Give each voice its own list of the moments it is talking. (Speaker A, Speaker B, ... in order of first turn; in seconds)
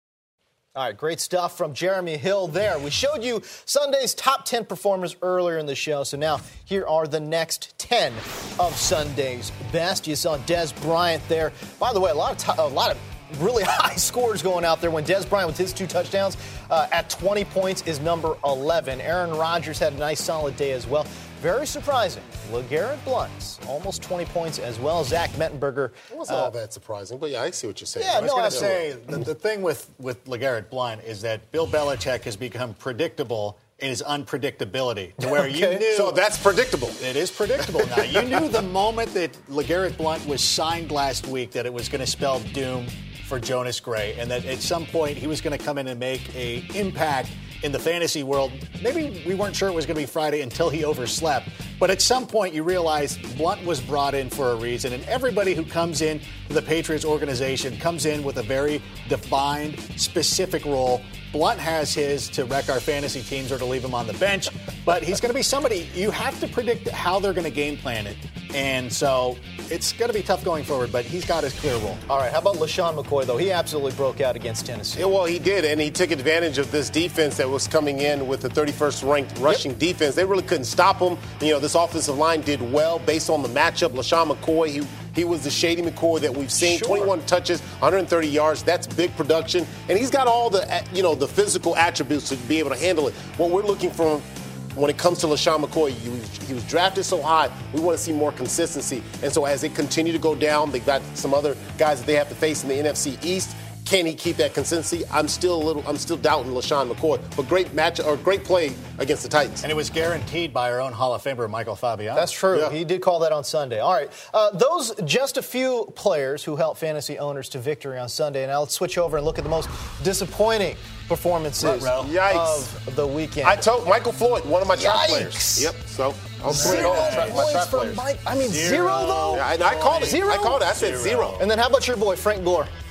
Speaker A: 0.8-26.5, 28.0-28.9, 35.2-35.9, 72.1-75.1, 86.6-87.1, 112.2-123.7, 124.7-125.7, 126.5-130.8, 131.4-132.7
Speaker B: 26.1-28.8, 35.9-37.0, 37.8-38.5, 75.0-109.7, 112.5-112.8, 122.0-122.7, 123.4-128.0, 129.3-131.4
Speaker C: 28.1-36.2, 37.0-72.0, 109.6-112.3, 121.6-122.1, 126.5-131.4